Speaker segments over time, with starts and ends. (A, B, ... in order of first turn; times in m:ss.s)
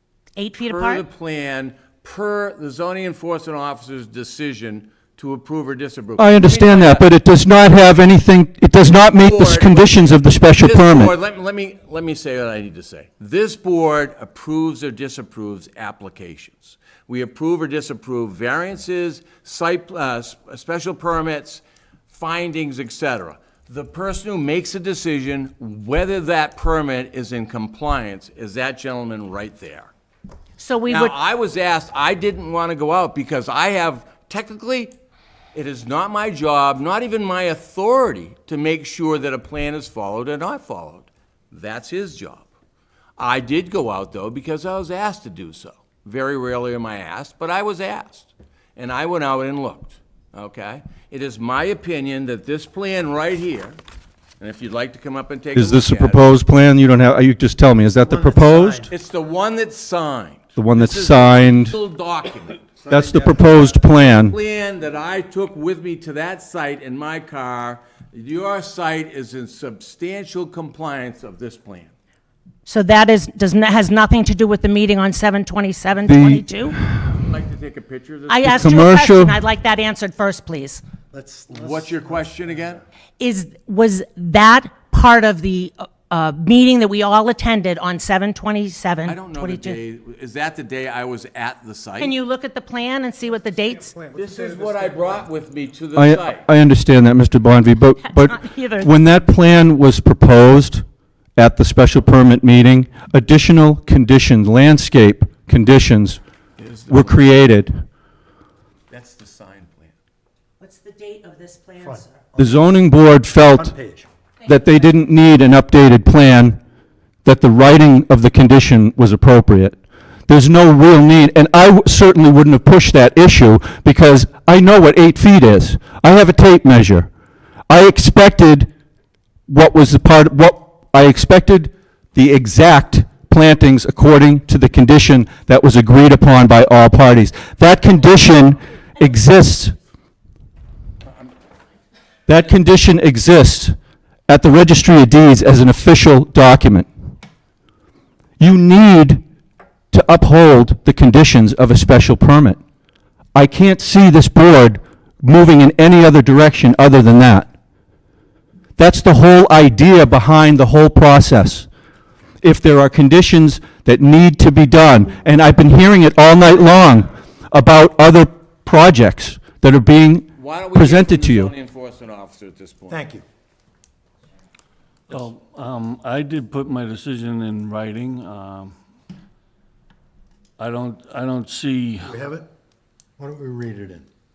0:00.4-0:01.0 A
0:00.7-0:07.1 B
0:06.2-0:11.1 C
0:09.0-0:29.9 B
0:30.6-0:31.1 A
0:30.9-0:34.9 B
0:35.5-0:42.5 B
0:43.2-0:53.8 B
0:54.4-0:56.3 B
0:55.6-0:58.9 C
0:58.0-0:58.9 D
0:58.9-1:02.8 B
1:00.6-1:01.8 C
1:02.8-1:03.7 D
1:02.9-1:04.4 C
1:03.9-1:11.9 B
1:12.7-1:16.8 A
1:16.1-1:16.4 C
1:17.2-1:18.6 B
1:18.3-1:20.8 A
1:18.5-1:19.4 C
1:21.1-1:22.8 D
1:21.5-1:22.8 B
1:23.2-1:29.8 A
1:29.1-1:32.2 B
1:32.0-1:33.9 A
1:33.8-1:35.2 D
1:34.1-1:36.4 B
1:36.0-1:40.8 C
1:38.0-1:38.9 A
1:41.4-1:46.2 C
1:46.6-1:47.2 B
1:46.9-1:47.7 C
1:48.9-1:49.9 B
1:50.6-1:52.2 A
1:51.8-1:52.4 D
1:52.4-1:53.8 C
1:53.6-1:54.1 D
1:54.4-1:55.0 A
1:54.5-1:56.6 C
1:57.2-1:59.8 C
2:00.3-2:07.1 C
2:07.7-2:08.7 C
2:09.5-2:19.8 C
2:22.3-2:23.8 C
2:24.3-2:26.9 C
2:28.4-2:29.2 C
2:29.9-2:32.6 C
2:33.3-2:37.5 C
2:38.8-2:41.7 C
2:42.4-2:51.5 C
2:50.4-2:53.1 B
2:52.9-2:53.2 D
2:55.1-2:58.7 E
3:00.6-3:02.2 E
3:02.1-3:02.5 D
3:03.2-3:04.1 D